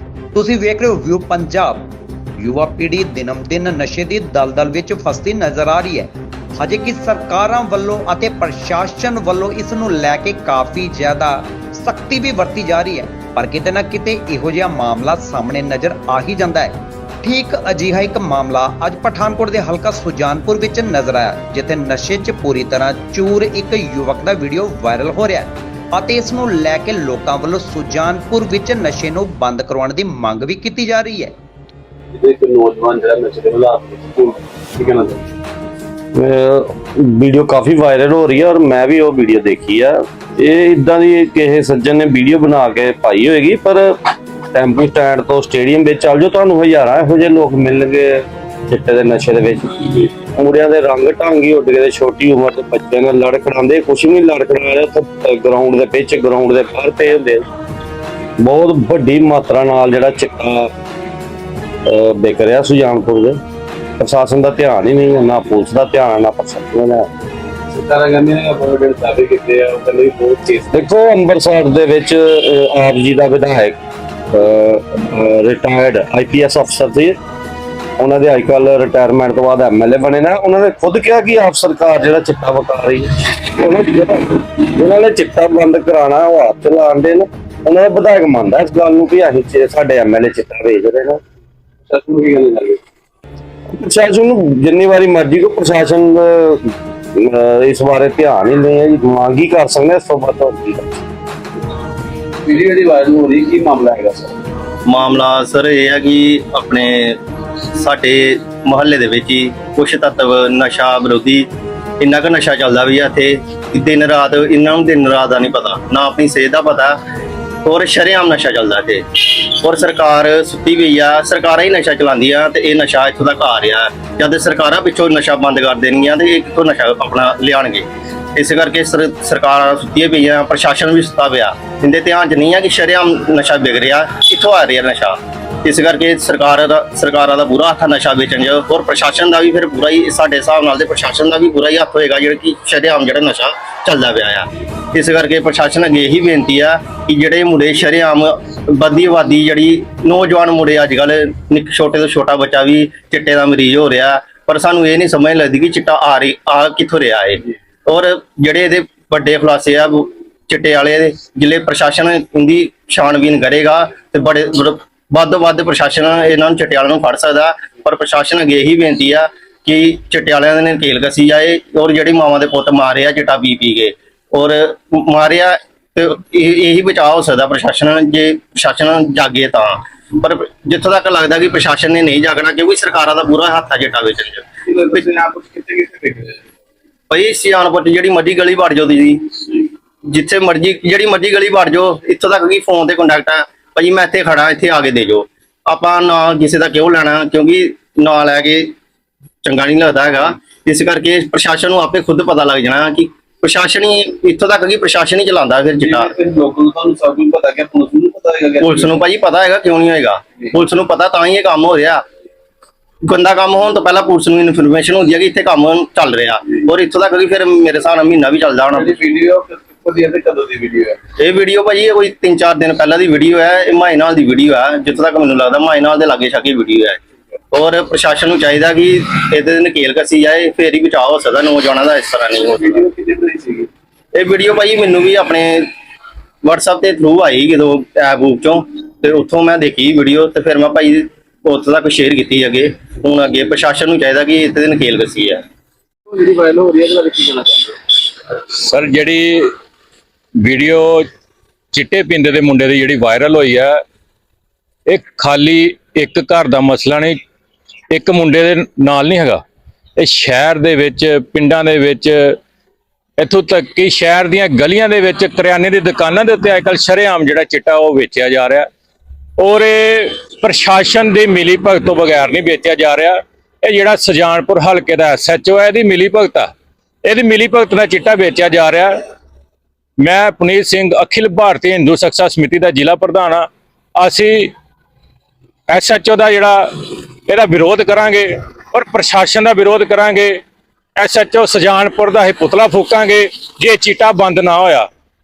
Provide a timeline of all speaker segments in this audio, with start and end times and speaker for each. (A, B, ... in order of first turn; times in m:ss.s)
0:00.3-0:31.3 A
0:32.1-0:35.3 B
0:36.2-0:44.0 C
0:44.5-0:57.4 C
0:58.4-1:00.7 C
1:01.9-1:03.4 C
1:04.0-1:07.1 C
1:07.7-1:10.7 B
1:10.7-1:13.8 C
1:14.3-1:17.2 C
1:18.0-1:31.2 C
1:31.9-1:32.8 B
1:33.7-1:41.0 C
1:42.4-1:44.4 B
1:44.9-1:47.2 D
1:47.7-1:51.5 D
1:52.0-1:57.0 D
1:57.6-3:04.5 D
3:04.7-3:06.4 B
3:07.1-3:18.7 D
3:19.4-3:26.1 D
3:25.8-3:29.0 B
3:28.6-3:32.0 D
3:33.0-3:38.9 D
3:38.7-3:41.0 B
3:41.2-3:47.0 D
3:47.5-3:52.8 D
3:52.6-3:53.7 B
3:54.1-3:55.7 D
3:56.4-4:05.4 D
4:06.1-4:07.8 B
4:08.5-4:09.5 E
4:10.4-4:11.0 E
4:11.7-4:13.8 E
4:14.9-4:17.2 E
4:17.9-4:19.4 E
4:20.0-4:22.4 E
4:23.2-4:28.7 E
4:29.4-4:36.5 E
4:37.0-4:38.9 E
4:40.0-4:44.5 E
4:45.7-4:50.4 E
4:51.0-4:54.9 E